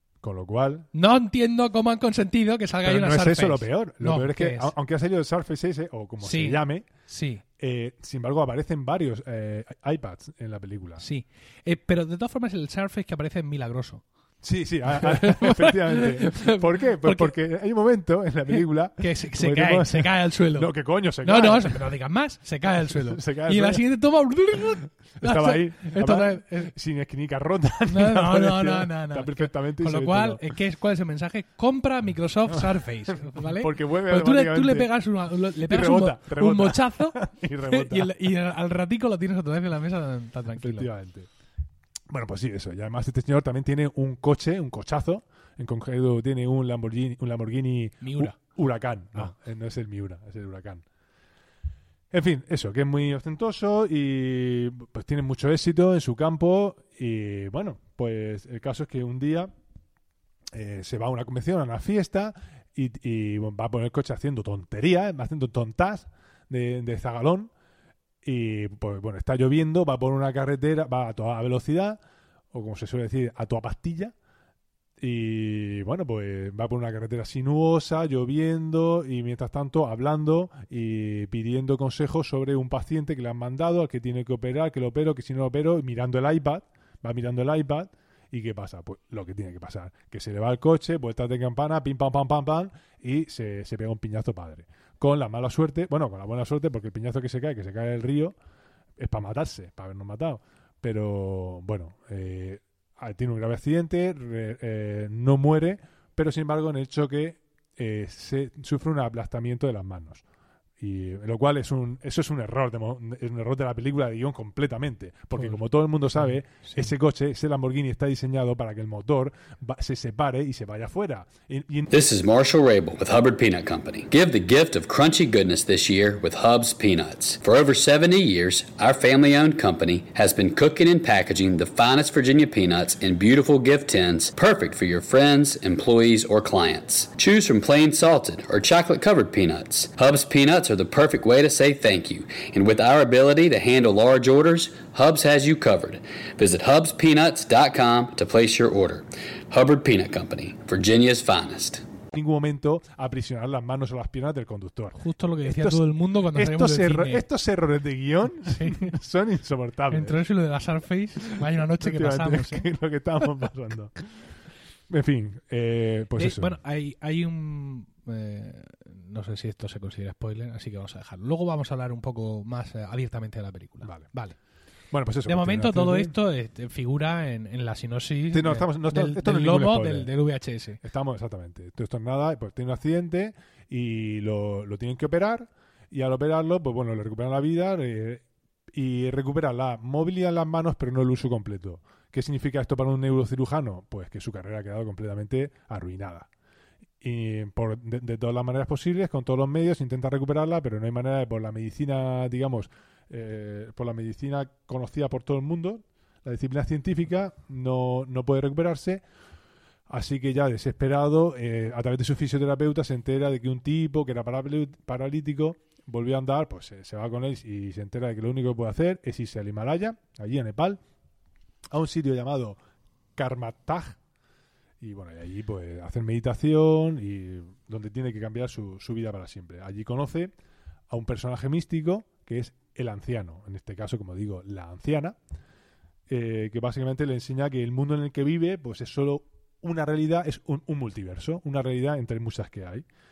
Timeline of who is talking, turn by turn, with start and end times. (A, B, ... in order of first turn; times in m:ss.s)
0:00.2-0:00.9 A
0:00.9-0:04.7 B
0:02.8-0:06.9 A
0:06.2-0:07.4 B
0:07.6-0:11.0 A
0:11.0-0:14.0 B
0:14.4-0:21.9 A
0:14.9-0:17.4 B
0:18.5-0:20.7 B
0:21.2-0:26.7 B
0:22.7-0:23.8 A
0:25.2-0:30.5 A
0:27.9-0:40.9 B
0:33.2-0:34.9 A
0:35.6-0:38.4 A
0:40.6-0:41.3 A
0:42.1-0:50.8 A
0:48.0-0:48.4 B
0:52.1-0:59.5 A
1:00.5-1:07.5 A
1:08.2-1:12.0 A
1:12.5-1:14.1 A
1:15.0-1:38.4 A
1:39.0-1:50.2 A
1:50.8-2:01.9 A
1:56.2-1:56.9 B
2:01.9-2:31.8 C
2:32.1-2:40.2 A
2:35.0-2:37.2 B
2:38.4-2:39.0 B
2:39.9-2:42.7 B
2:41.4-2:44.4 A
2:44.9-2:46.6 A
2:46.2-2:54.4 B
2:53.8-2:54.1 A
2:54.9-2:56.2 A
2:55.3-3:00.8 B
2:58.3-3:00.1 A
3:00.8-3:16.3 A
3:17.0-3:29.0 A
3:29.9-3:40.8 A
3:41.7-3:42.6 A
3:43.2-3:44.0 A
3:44.8-3:50.3 A
3:50.9-3:55.2 A
3:56.1-4:02.9 A